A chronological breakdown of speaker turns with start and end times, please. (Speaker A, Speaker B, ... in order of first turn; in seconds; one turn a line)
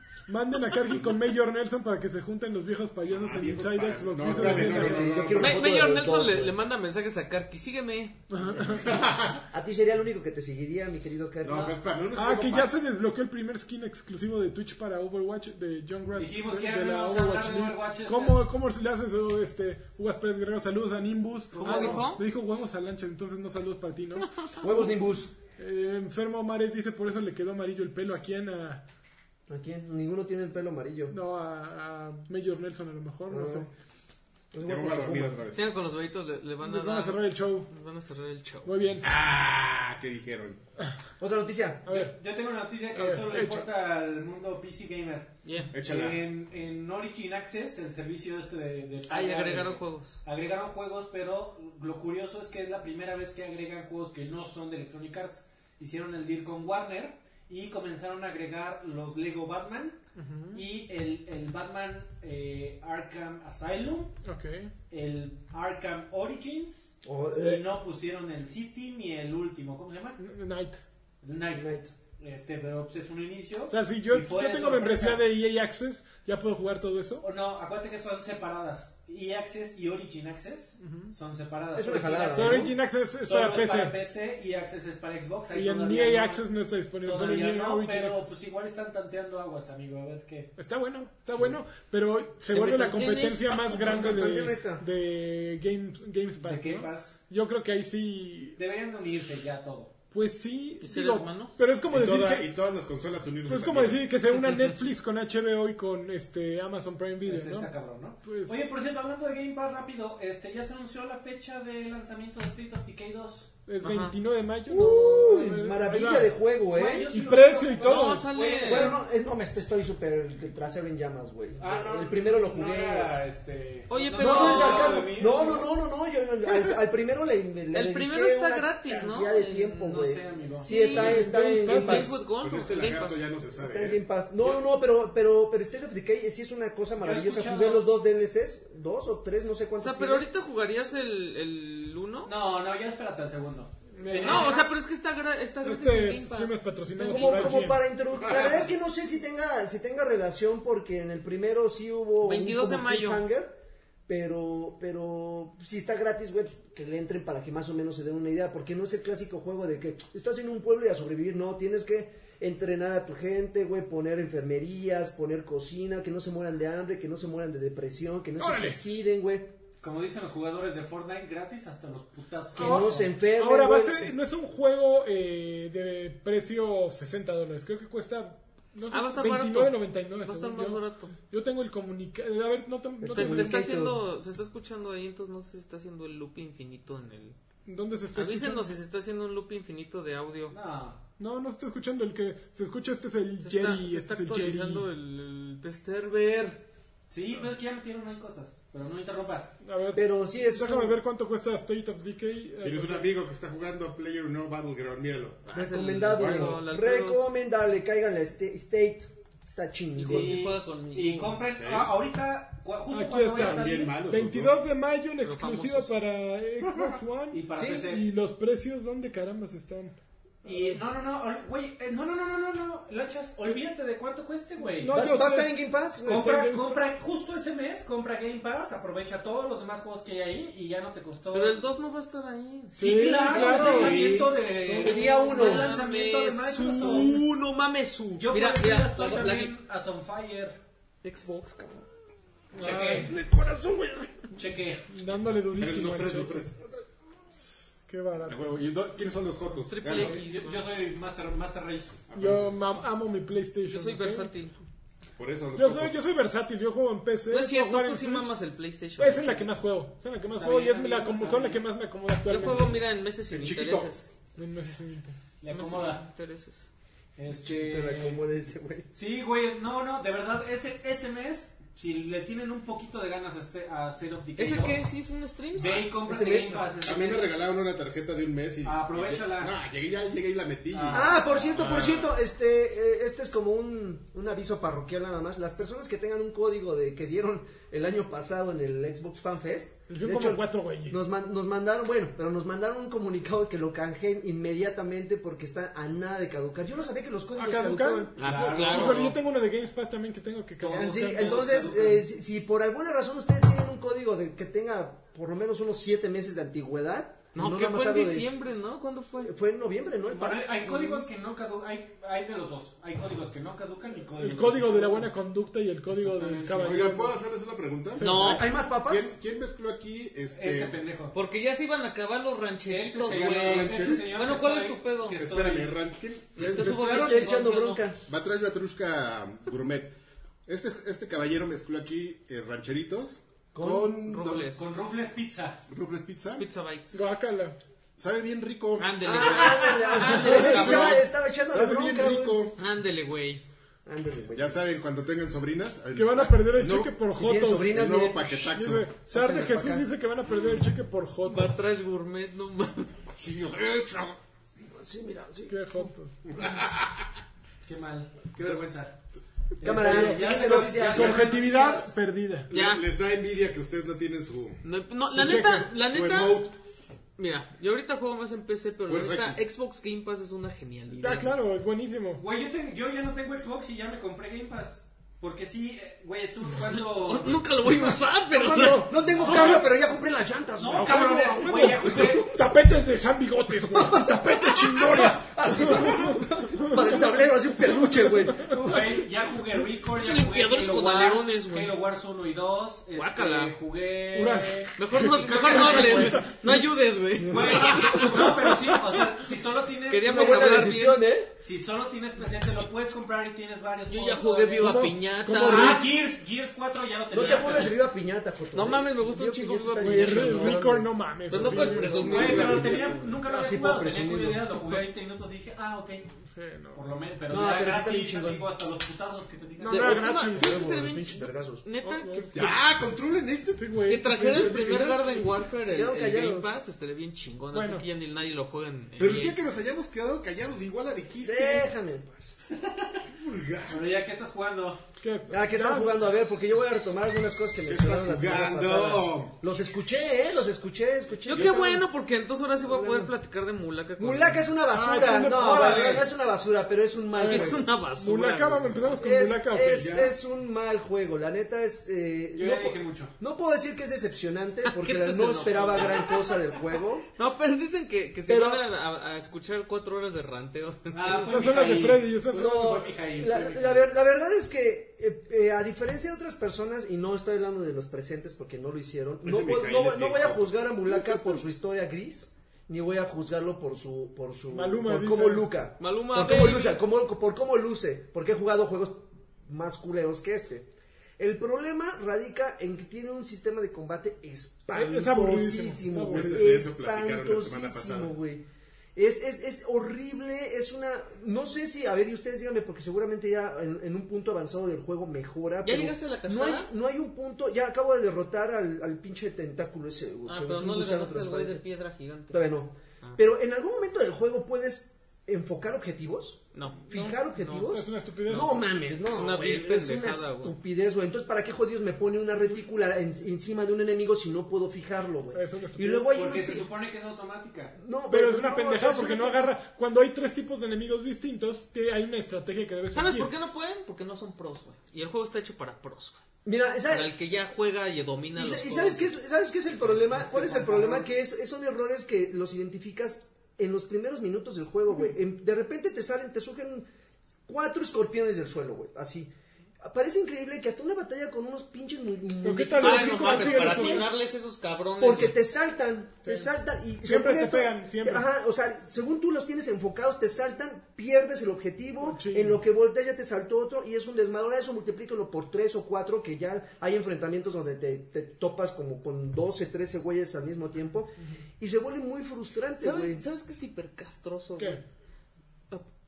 Speaker A: 0.3-5.4
Speaker B: 0.9-1.1
Speaker B: 3.1-5.8
Speaker C: 4.2-6.5
Speaker D: 5.4-8.2
Speaker A: 8.3-8.9
Speaker B: 8.6-9.4
Speaker C: 9.5-11.8
Speaker B: 11.4-12.7
Speaker A: 12.1-24.9
Speaker E: 16.2-18.4
Speaker D: 21.6-22.2
Speaker C: 21.6-22.1
Speaker C: 24.6-25.3
Speaker A: 25.6-28.8
Speaker C: 29.5-31.2
Speaker A: 31.1-33.7
Speaker C: 33.3-33.7
Speaker C: 34.5-35.4
Speaker B: 34.6-35.7
Speaker D: 35.5-38.7
Speaker A: 36.6-37.7
Speaker A: 38.6-39.1
Speaker B: 39.0-40.6
Speaker C: 41.2-41.9
Speaker A: 41.9-42.2
Speaker E: 41.9-60.0
Speaker A: 42.9-43.7
Speaker D: 45.4-45.7
Speaker B: 45.7-46.3
Speaker D: 49.1-50.2
Speaker A: 60.2-60.6
Speaker E: 60.5-64.1
Speaker A: 64.2-64.7
Speaker E: 64.9-70.2
Speaker C: 67.0-67.6
Speaker A: 70.2-70.8
Speaker E: 71.2-75.2
Speaker C: 71.5-71.9
Speaker A: 73.7-77.3
Speaker E: 77.2-86.4
Speaker A: 80.8-81.1
Speaker C: 81.8-82.8
Speaker A: 82.3-84.0
Speaker A: 85.5-88.3
Speaker E: 87.0-90.6
Speaker A: 90.6-98.6
Speaker D: 92.5-94.2
Speaker C: 93.8-94.8
Speaker E: 96.4-97.2
Speaker E: 98.6-99.9
Speaker A: 100.1-102.5
Speaker D: 100.8-101.6
Speaker B: 101.9-104.1
Speaker A: 103.5-107.7
Speaker E: 107.2-113.5
Speaker A: 108.2-108.6
Speaker A: 113.7-116.4
Speaker D: 113.8-114.2
Speaker C: 114.7-117.1
Speaker E: 116.7-119.0
Speaker A: 117.1-118.3
Speaker D: 117.8-119.0
Speaker C: 118.5-123.1
Speaker E: 121.6-125.7
Speaker D: 123.9-125.1
Speaker C: 124.2-132.1
Speaker D: 127.7-130.1
Speaker E: 129.8-130.7
Speaker D: 130.6-133.2
Speaker A: 130.8-132.1
Speaker B: 132.4-134.0
Speaker C: 133.6-140.3
Speaker E: 137.0-137.9
Speaker D: 139.8-142.3
Speaker E: 142.2-144.7
Speaker A: 144.0-144.6
Speaker D: 144.2-147.7
Speaker A: 145.6-147.9
Speaker C: 147.0-169.5
Speaker B: 148.1-148.7
Speaker E: 148.2-148.7
Speaker D: 152.2-153.2
Speaker A: 168.4-168.8
Speaker E: 169.8-173.0
Speaker C: 172.6-174.1
Speaker A: 172.6-183.8
Speaker D: 178.9-181.1
Speaker C: 183.0-184.0
Speaker D: 183.1-187.4
Speaker A: 187.7-188.7
Speaker D: 188.2-190.6
Speaker E: 190.5-191.0
Speaker A: 191.2-194.9
Speaker D: 193.4-196.6
Speaker E: 197.1-199.5
Speaker A: 199.6-203.1
Speaker C: 199.9-201.0
Speaker B: 202.6-206.6
Speaker D: 205.5-207.3
Speaker C: 205.6-210.4
Speaker D: 210.0-211.4
Speaker E: 210.0-213.9
Speaker B: 211.6-211.9
Speaker A: 212.9-220.8
Speaker B: 213.3-214.6
Speaker D: 215.2-215.9
Speaker E: 217.3-218.1
Speaker E: 220.4-225.0
Speaker A: 224.8-226.8
Speaker C: 224.9-226.3
Speaker E: 226.1-231.6
Speaker D: 231.3-234.1
Speaker E: 232.8-237.1
Speaker A: 232.8-235.2
Speaker C: 233.1-235.7
Speaker D: 235.2-239.6
Speaker A: 236.8-237.3
Speaker E: 238.2-240.6
Speaker D: 241.0-241.8
Speaker A: 242.5-243.2
Speaker E: 242.6-243.1
Speaker C: 243.1-244.1
Speaker E: 244.3-244.8
Speaker A: 244.9-246.5
Speaker B: 245.6-246.6
Speaker A: 247.9-248.6
Speaker B: 248.3-250.2
Speaker D: 249.7-250.6
Speaker E: 250.0-252.0
Speaker B: 252.1-252.5
Speaker A: 252.1-254.3
Speaker D: 253.7-254.6
Speaker B: 255.2-256.0
Speaker A: 255.6-258.3
Speaker D: 257.3-259.5
Speaker A: 259.0-262.8
Speaker E: 260.3-261.6
Speaker D: 262.2-264.1
Speaker B: 263.3-263.9
Speaker A: 264.4-265.2
Speaker E: 265.4-266.0
Speaker D: 265.5-266.7
Speaker E: 267.2-268.2
Speaker C: 267.4-268.9
Speaker E: 268.9-274.9
Speaker D: 274.4-275.8
Speaker E: 275.6-277.4
Speaker C: 275.8-276.7
Speaker B: 276.8-282.1
Speaker E: 278.6-279.6
Speaker E: 280.7-281.9
Speaker C: 280.9-298.7
Speaker A: 289.9-291.0
Speaker A: 297.3-301.7
Speaker D: 298.2-299.2
Speaker E: 298.2-299.2
Speaker E: 300.6-302.1
Speaker C: 300.7-308.3
Speaker D: 307.3-309.3
Speaker C: 309.2-311.1
Speaker E: 310.1-315.1
Speaker A: 314.2-317.2
Speaker E: 315.9-316.9
Speaker B: 316.5-320.8
Speaker A: 318.0-318.5
Speaker D: 318.0-318.5
Speaker C: 318.2-319.1
Speaker E: 320.3-321.1
Speaker D: 321.1-325.3
Speaker E: 322.7-325.8
Speaker B: 323.1-324.1
Speaker B: 325.1-327.4
Speaker D: 326.4-327.8
Speaker C: 326.6-328.0
Speaker B: 328.1-329.9
Speaker B: 330.5-334.5
Speaker C: 333.5-334.0
Speaker D: 334.0-334.6
Speaker E: 334.4-335.6
Speaker B: 335.7-336.5
Speaker D: 336.4-337.0
Speaker A: 336.9-337.6
Speaker B: 338.0-339.8
Speaker D: 338.8-341.0
Speaker C: 339.0-342.5
Speaker A: 340.0-341.0
Speaker B: 340.4-342.6
Speaker D: 342.6-343.4
Speaker C: 343.9-344.6
Speaker B: 344.3-346.9
Speaker A: 345.9-347.8
Speaker C: 346.7-348.4
Speaker B: 347.7-348.9
Speaker A: 348.4-351.6
Speaker C: 349.1-349.9
Speaker D: 351.2-353.1
Speaker B: 353.1-354.2
Speaker C: 354.6-355.9
Speaker A: 355.5-356.2
Speaker B: 356.3-357.1
Speaker E: 357.6-358.9
Speaker E: 359.6-361.9
Speaker C: 359.6-361.4
Speaker A: 359.6-362.5
Speaker B: 362.5-364.6
Speaker D: 362.5-362.9
Speaker D: 364.6-366.5
Speaker A: 365.2-365.7
Speaker B: 365.7-366.6
Speaker D: 367.2-371.4
Speaker B: 368.9-369.4
Speaker A: 371.0-372.2
Speaker E: 372.2-377.5
Speaker D: 376.7-379.5
Speaker C: 378.3-382.4
Speaker A: 378.5-379.6
Speaker E: 379.3-379.6
Speaker E: 380.6-382.3
Speaker A: 380.7-387.0
Speaker C: 383.6-389.1
Speaker E: 388.6-396.3
Speaker D: 390.0-391.7
Speaker D: 392.9-393.5
Speaker A: 394.1-396.7
Speaker D: 394.8-399.0
Speaker C: 397.2-398.1
Speaker E: 397.2-400.8
Speaker D: 399.9-401.1
Speaker C: 400.1-401.3
Speaker E: 401.4-407.8
Speaker D: 403.9-405.8
Speaker A: 404.6-405.9
Speaker C: 407.1-414.6
Speaker D: 408.5-410.7
Speaker A: 409.8-412.5
Speaker D: 411.3-413.2
Speaker E: 411.8-416.1
Speaker A: 416.2-416.8
Speaker E: 416.7-419.9
Speaker C: 417.3-418.4
Speaker A: 419.6-420.7
Speaker D: 419.6-422.4
Speaker C: 419.9-421.6
Speaker A: 421.8-422.5
Speaker B: 422.3-423.8
Speaker A: 423.6-425.1
Speaker D: 423.9-429.4
Speaker B: 424.4-425.1
Speaker C: 425.5-426.5
Speaker A: 427.5-427.9
Speaker B: 429.0-431.7
Speaker C: 431.2-432.4
Speaker E: 432.5-433.1
Speaker B: 433.2-433.9
Speaker E: 433.7-434.8
Speaker A: 435.0-436.0
Speaker C: 435.3-441.9
Speaker B: 437.6-439.4
Speaker D: 441.3-444.4
Speaker B: 441.3-441.6
Speaker C: 442.6-443.1
Speaker C: 444.0-447.6
Speaker A: 444.7-446.0
Speaker E: 445.3-446.1
Speaker D: 447.2-448.9
Speaker A: 447.2-450.1
Speaker C: 449.0-457.1
Speaker B: 449.7-450.1
Speaker E: 452.3-453.1
Speaker D: 454.6-456.4
Speaker D: 457.2-461.2
Speaker C: 458.3-458.6
Speaker E: 460.9-463.9
Speaker A: 461.1-462.8
Speaker C: 462.3-480.7
Speaker B: 469.2-470.7
Speaker A: 474.5-475.5
Speaker D: 475.8-476.8
Speaker C: 481.2-488.4
Speaker A: 484.7-486.7
Speaker B: 486.1-488.2
Speaker C: 488.9-501.6
Speaker D: 495.6-496.7
Speaker D: 500.2-502.4
Speaker C: 502.3-516.7
Speaker D: 506.5-506.8
Speaker A: 506.9-508.7
Speaker D: 507.4-507.7
Speaker D: 509.1-510.6
Speaker A: 515.3-516.1
Speaker E: 516.1-517.8
Speaker C: 517.8-519.5
Speaker A: 518.1-523.3
Speaker D: 522.9-526.2
Speaker C: 526.5-527.1
Speaker D: 526.9-529.2
Speaker C: 528.4-536.9
Speaker E: 529.7-531.1
Speaker C: 537.5-544.0
Speaker A: 542.4-544.1
Speaker D: 542.8-545.4
Speaker C: 545.0-563.2
Speaker A: 546.2-546.5
Speaker A: 547.0-548.3
Speaker A: 552.0-552.6
Speaker D: 562.8-564.8